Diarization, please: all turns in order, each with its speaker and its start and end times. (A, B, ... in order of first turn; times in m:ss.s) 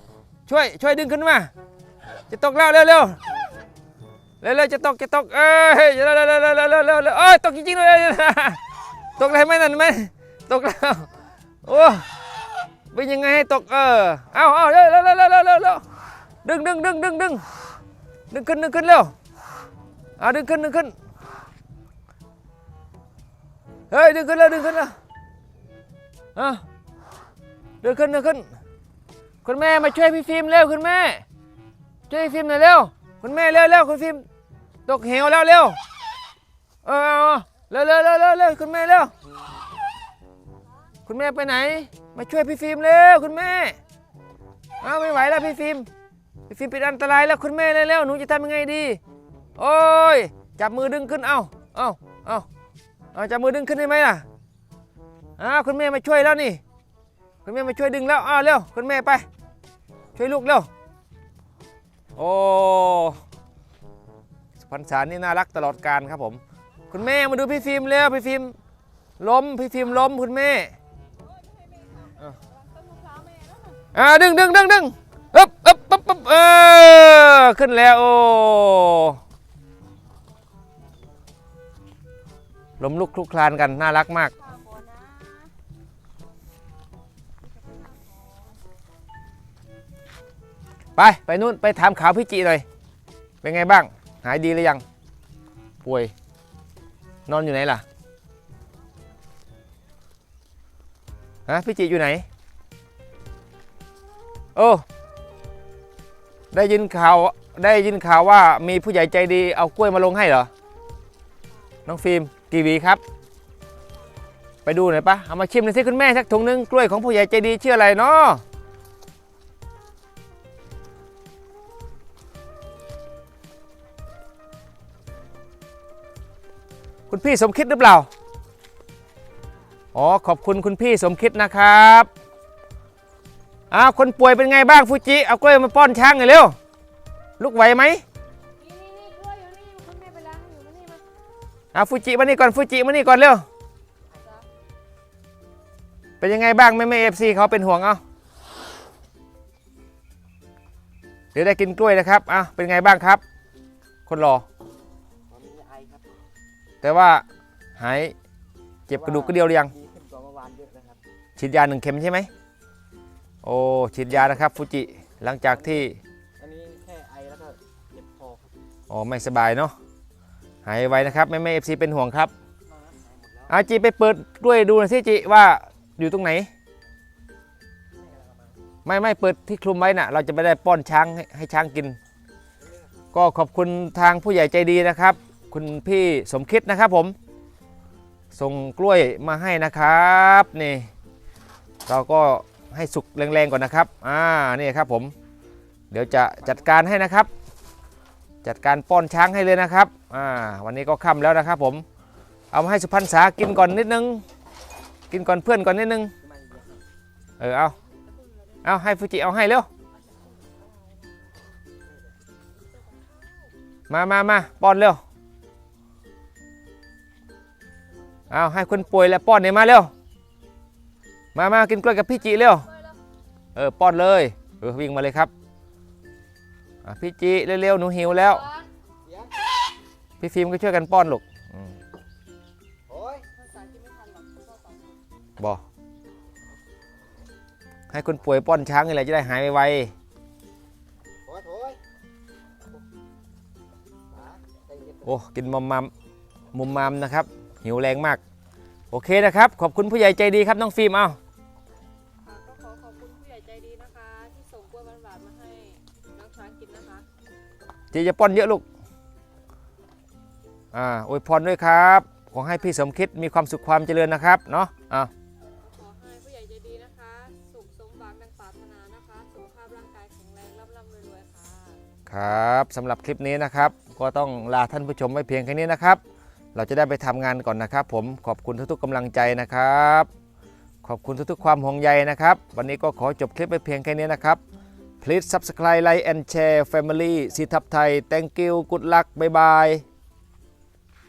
0:00.5-0:01.5 A
0:02.3-0:03.2 A
0:04.4-0:08.6 A
0:09.2-0:11.1 A
0:11.6-0:12.0 A
0:12.9-0:15.8 A
0:16.4-0:17.5 A
0:18.3-0:19.1 A
0:20.2-0:20.9 A
0:23.9-0:24.9 A
0:26.3-0:26.6 A
0:27.8-0:28.4 A
0:29.4-0:31.2 A
0:32.1-0:34.2 A
0:34.8-0:35.8 A
0:36.8-0:39.1 A
0:41.0-0:43.8 A
0:44.8-0:45.9 A
0:46.5-0:49.0 A
0:49.6-0:52.4 A
0:53.1-0:54.2 A
0:55.4-0:56.6 A
0:57.4-0:59.2 A
1:00.1-1:00.7 A
1:02.2-1:03.2 A
1:04.6-1:08.5 A
1:09.2-1:10.7 A
1:11.7-1:13.8 B
1:13.9-1:19.2 A
1:22.8-1:24.3 A
1:24.4-1:25.5 B
1:27.7-1:28.2 B
1:31.0-1:32.6 A
1:33.4-1:34.8 A
1:35.8-1:36.1 A
1:37.3-1:37.8 A
1:41.5-1:42.2 A
1:44.5-1:44.8 A
1:46.5-1:50.5 A
1:51.8-1:53.0 A
1:54.6-1:58.4 A
2:07.1-2:08.1 A
2:09.9-2:12.1 A
2:13.7-2:16.6 A
2:17.4-2:18.0 A
2:18.6-2:21.0 B
2:21.7-2:23.4 A
2:26.2-2:28.0 A
2:31.3-2:33.2 A
2:34.0-2:34.4 A
2:35.3-2:36.0 C
2:36.8-2:37.2 A
2:37.8-2:38.1 A
2:38.9-2:39.7 A
2:39.0-2:41.0 C
2:41.4-2:42.3 A
2:43.4-2:46.0 A
2:46.4-2:48.5 C
2:48.9-2:49.7 A
2:50.6-2:52.3 A
2:52.7-2:53.5 C
2:53.5-2:56.5 A
2:58.8-3:02.0 A
3:03.1-3:07.2 A
3:08.3-3:10.9 A
3:11.9-3:15.1 A
3:15.9-3:17.3 A
3:18.4-3:21.8 A
3:22.5-3:24.2 A
3:25.1-3:26.1 A
3:26.3-3:26.6 C
3:27.4-3:27.8 A
3:28.6-3:29.7 A
3:33.9-3:35.0 A
3:38.3-3:39.9 A
3:41.3-3:42.7 A
3:43.5-3:45.3 A
3:46.8-3:48.4 A
3:48.2-3:48.7 B
3:50.2-3:51.8 A
3:52.9-3:53.2 C
3:53.3-3:55.0 B
3:57.9-3:59.9 A
4:01.3-4:01.8 C
4:04.4-4:05.0 C
4:05.0-4:05.9 A
4:06.5-4:08.2 A
4:08.9-4:11.2 A
4:12.2-4:17.0 B
4:17.9-4:18.6 A
4:20.7-4:25.1 A
4:25.6-4:31.8 B
4:32.1-4:36.0 A
4:36.5-4:40.1 A
4:40.8-4:44.4 A
4:45.0-4:49.8 A